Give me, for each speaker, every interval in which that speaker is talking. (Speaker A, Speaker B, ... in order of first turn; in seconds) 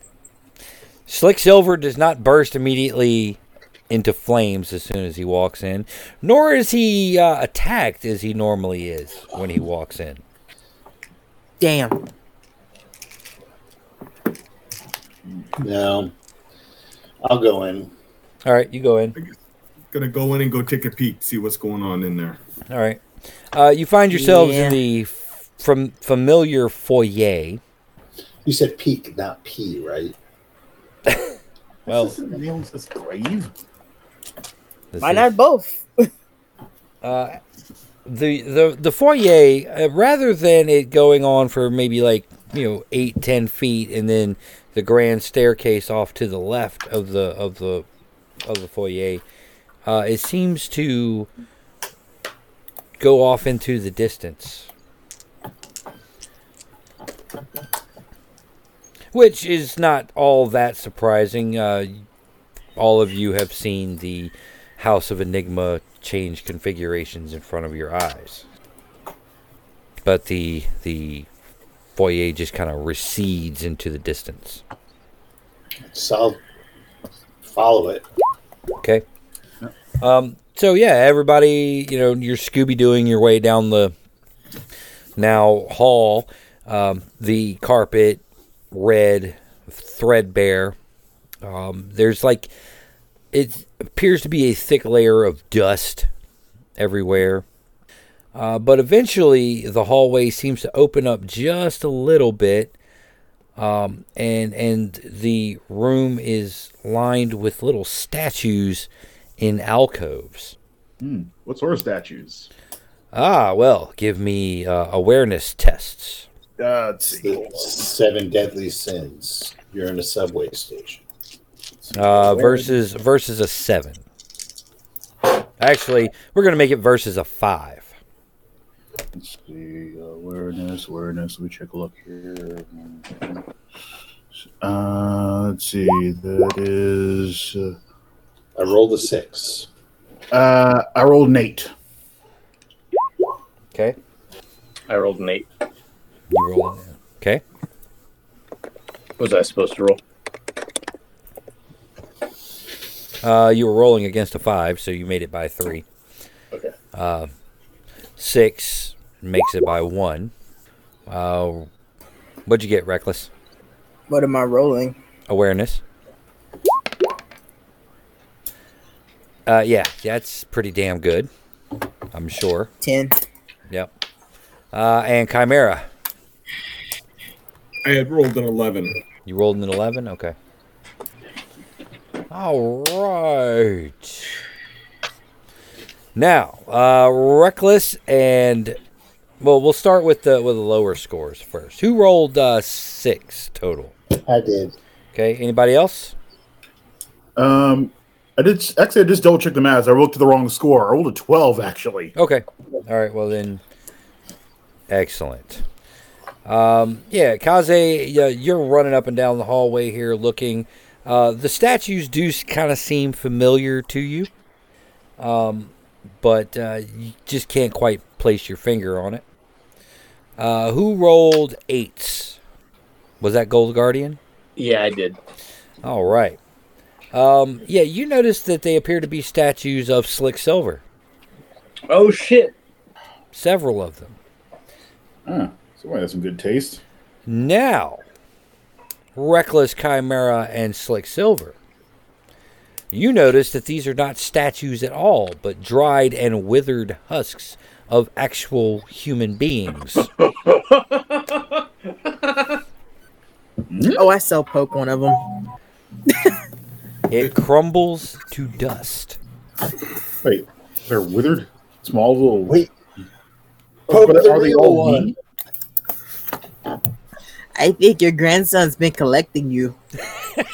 Speaker A: 1.1-10.2, 18.4-19.1, 22.7-27.6, 31.1-31.3, 31.9-32.1, 34.9-35.3, 37.0-37.4, 38.0-47.9, 48.4-49.2, 49.8-51.3, 53.0-54.7, 59.1-62.0, 62.8-68.4, 70.0-71.3, 71.9-74.6, 80.0-83.9, 85.2-90.7, 91.4-92.5, 93.3-96.1, 96.8-97.4, 98.3-102.7, 103.6-110.5, 113.1-116.3, 121.9-124.0, 125.6-127.9, 146.3-147.4, 153.2-155.8, 156.9-157.3, 158.2-160.3, 161.1-161.7, 162.4-163.3, 165.3-165.8, 169.4-171.3, 172.1-172.7, 174.7-175.8, 179.2-180.3, 182.3-184.3, 186.1-188.8, 189.4-193.9, 195.1-196.1, 202.1-203.6, 204.9-205.6, 206.4-214.3, 215.2-219.2, 220.4-222.4, 223.2-224.2, 225.8-226.4, 227.1-230.8, 233.3-234.2, 237.3-238.0, 239.1-241.6, 242.9-250.1, 257.1-259.2
Speaker B: 11.6-12.0, 24.1-24.8, 35.0-36.1, 164.1-165.0, 172.8-173.2, 253.9-255.2, 267.5-269.8
Speaker C: 15.6-16.1, 17.2-17.9, 28.4-30.1, 75.8-76.4, 77.4-78.0, 117.1-121.0, 138.5-139.7, 194.2-194.8, 263.9-265.1
Speaker D: 19.9-22.4, 177.8-179.0
Speaker E: 31.9-33.5, 111.0-112.5, 116.6-117.7, 121.8-122.8, 129.1-133.4, 134.6-137.7, 140.3-141.7, 197.3-202.1, 235.2-236.8, 253.7-254.1, 260.2-262.6, 263.9-265.1
Speaker F: 144.9-145.5, 149.2-150.0, 224.6-225.2, 231.9-232.5, 250.2-251.5, 252.0-252.5